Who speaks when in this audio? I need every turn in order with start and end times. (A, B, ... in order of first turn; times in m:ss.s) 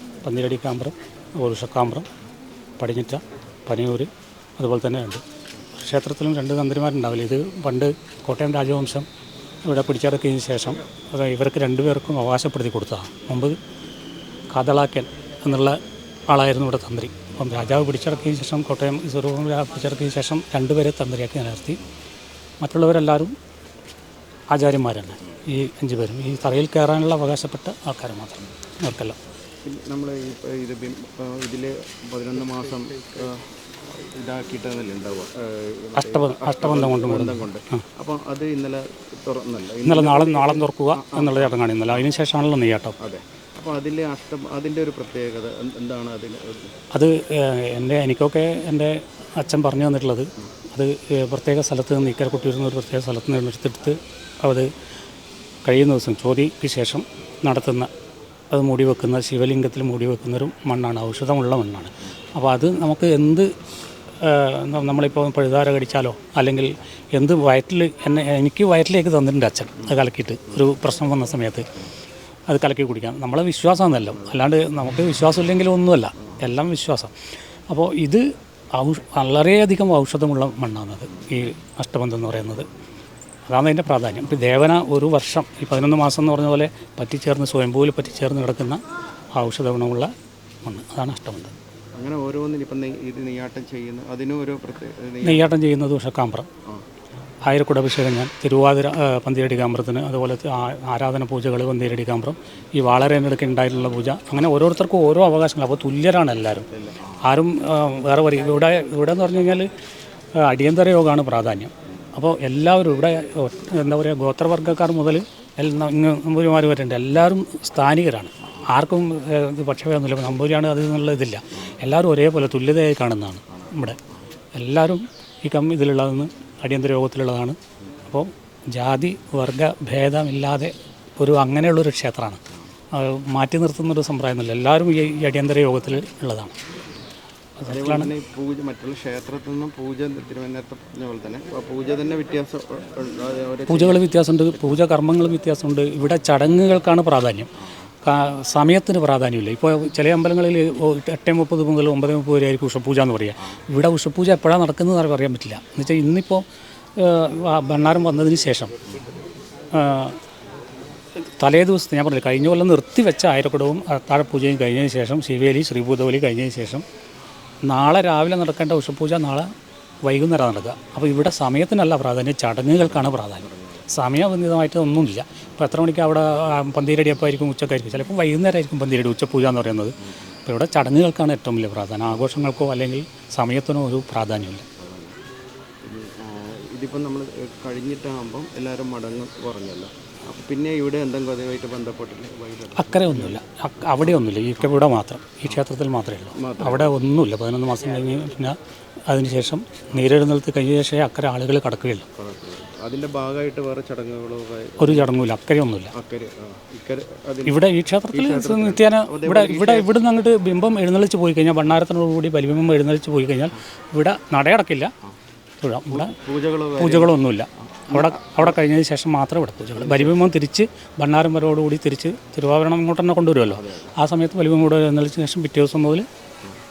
0:00.2-0:02.1 A
0:02.8-0:05.2 A
0:05.7-0:09.1 A
0:09.6-0:13.6 A
0:14.5-0:21.8 A
0:22.6-0:23.3 A
0:24.5-0:29.2 A
0:29.6-0:42.0 B
0:36.0-0:37.8 A
0:39.8-0:43.0 A
0:43.0-0:46.7 B
0:46.9-0:54.7 A
0:55.6-0:57.9 A
0:58.5-1:03.5 A
1:04.2-1:11.7 A
1:12.5-1:17.1 A
1:17.7-1:22.7 A
1:23.5-1:28.8 A
1:29.4-1:30.1 A
1:30.6-1:31.5 A
1:32.0-1:35.5 B
1:35.2-1:36.5 A
1:37.5-1:46.7 A
1:46.7-1:47.2 B
1:47.2-1:49.7 A
1:50.4-2:04.0 A
2:04.5-2:07.6 A
2:08.1-2:16.5 A
2:17.6-2:18.1 A
2:17.7-2:24.1 B
2:23.7-2:27.5 A
2:28.0-2:36.4 A
2:37.0-2:38.8 A
2:39.7-2:40.2 A
2:41.4-2:46.8 A
2:47.6-2:49.5 A
2:50.0-3:04.7 A
2:53.5-2:53.9 B
3:04.8-3:05.2 B
3:05.8-3:13.4 B
3:12.7-3:22.1 A
3:16.4-3:17.0 B
3:22.2-3:25.1 B
3:24.8-3:25.9 A
3:25.9-3:30.0 B
3:27.5-3:34.9 A
3:35.6-3:36.1 A
3:35.9-3:37.2 B
3:36.8-3:46.1 A
3:37.9-3:38.3 B
3:39.8-3:40.2 B
3:43.5-3:44.0 B